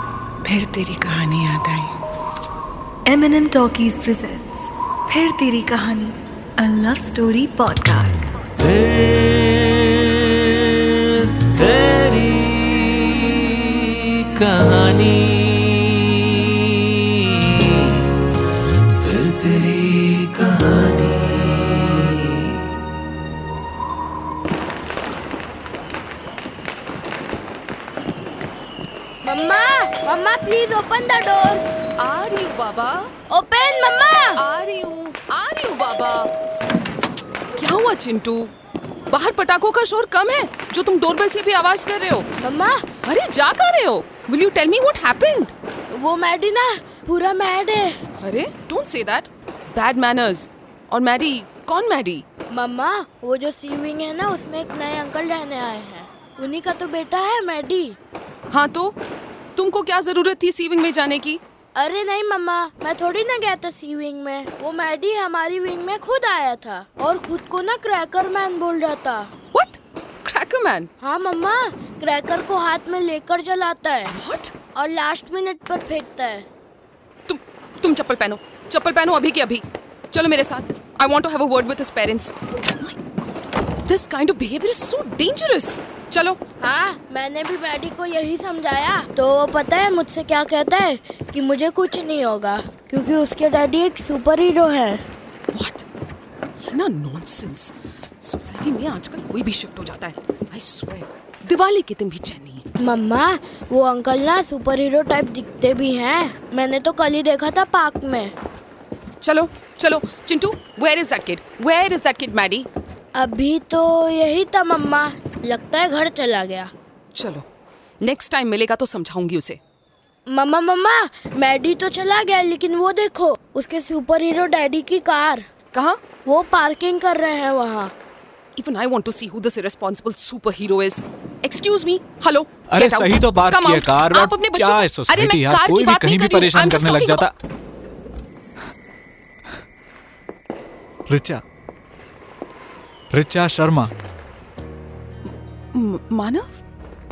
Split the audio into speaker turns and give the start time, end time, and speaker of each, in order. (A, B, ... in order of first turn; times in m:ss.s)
0:00.4-0:01.9 A
0:03.1-0:08.3 A
0:08.6-0:10.1 B
0:11.2-0:16.0 B
0:19.0-0:22.2 B
0:29.2-0:31.6 C
0:32.0-0:33.1 D
0:33.3-0:34.4 C
0:34.4-0:36.3 D
0:37.6-0:38.5 D
0:39.1-0:42.3 D
0:42.4-0:42.8 C
0:43.0-0:45.5 D
0:45.9-0:48.0 C
0:48.2-0:52.2 D
0:52.5-0:58.0 C
0:58.5-0:59.0 D
0:59.6-1:01.4 D
1:01.8-1:09.3 C
1:09.5-1:10.9 D
1:11.0-1:14.1 C
1:14.1-1:14.5 D
1:14.8-1:16.5 C
1:17.3-1:23.2 D
1:23.8-1:26.4 D
1:26.6-1:35.0 C
1:35.5-1:35.8 D
1:36.6-1:42.6 D
1:42.8-1:48.3 C
1:49.2-1:52.7 D
1:53.2-1:56.7 C
1:57.1-1:57.4 D
1:58.0-1:59.6 D
2:00.3-2:05.5 C
2:05.7-2:06.0 D
2:06.3-2:07.9 C
2:08.6-2:17.3 D
2:12.7-2:17.3 E
2:21.1-2:21.4 E
2:23.1-2:23.9 E
2:25.7-2:26.6 D